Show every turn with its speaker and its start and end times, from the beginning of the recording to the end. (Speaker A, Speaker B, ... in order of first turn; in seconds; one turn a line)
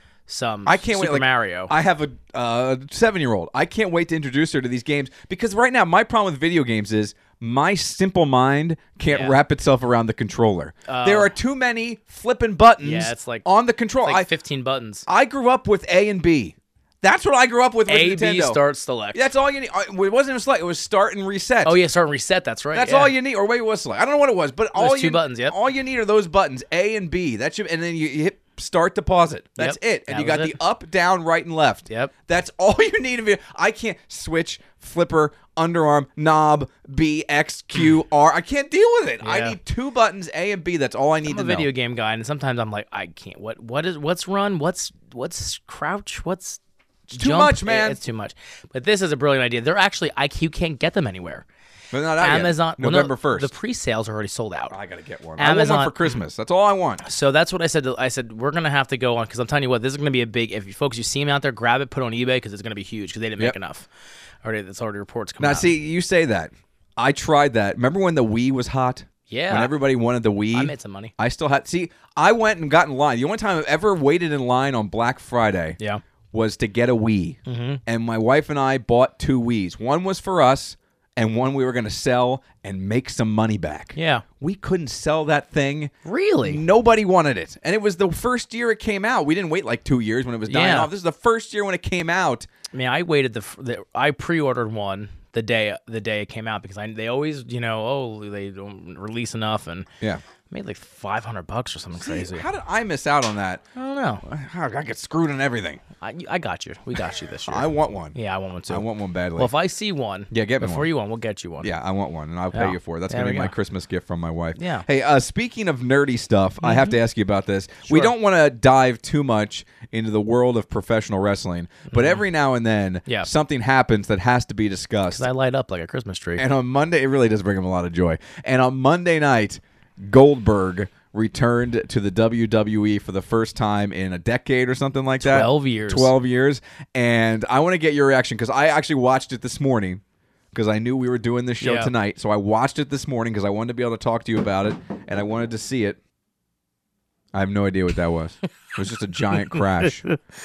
Speaker A: 0.3-1.7
Speaker B: 0.7-14.3
Speaker A: 9.1-9.4
Speaker A: 10.9-11.3
Speaker A: 12.8-13.5
Speaker A: 14.0-15.1
Speaker B: 15.1-18.6
Speaker A: 17.9-19.2
Speaker B: 19.1-21.8
Speaker A: 21.6-23.1
Speaker B: 22.7-41.7
Speaker A: 24.8-25.6
Speaker A: 29.6-30.6
Speaker A: 39.2-39.6
Speaker A: 41.2-46.6
Speaker B: 47.1-48.0
Speaker A: 47.1-51.5
Speaker B: 51.9-53.5
Speaker A: 52.2-54.7
Speaker B: 54.7-57.0
Speaker A: 55.4-56.2
Speaker A: 57.0-63.9
Speaker A: 64.4-65.7
Speaker B: 65.4-75.8
Speaker A: 69.3-69.7
Speaker A: 70.5-71.1
Speaker B: 76.3-85.9
Speaker A: 77.5-77.8
Speaker A: 84.0-84.2
Speaker A: 86.0-86.6
Speaker B: 86.5-92.5
Speaker A: 90.5-90.9
Speaker A: 92.7-99.9
Speaker A: 100.5-102.5
Speaker B: 102.0-103.6
Speaker A: 103.8-104.2
Speaker B: 104.2-105.8
Speaker A: 106.0-108.8
Speaker B: 107.5-108.2
Speaker B: 108.7-109.5
Speaker A: 109.4-111.7
Speaker B: 110.3-110.9
Speaker B: 111.6-125.3
Speaker A: 112.5-113.5
Speaker A: 114.6-114.9
Speaker A: 116.6-117.0
Speaker A: 117.9-118.1
Speaker A: 121.9-122.2
Speaker A: 125.1-126.4
Speaker B: 126.4-140.0
Speaker A: 135.2-136.1
Speaker B: 140.5-146.0
Speaker A: 141.6-141.9
Speaker B: 147.3-150.1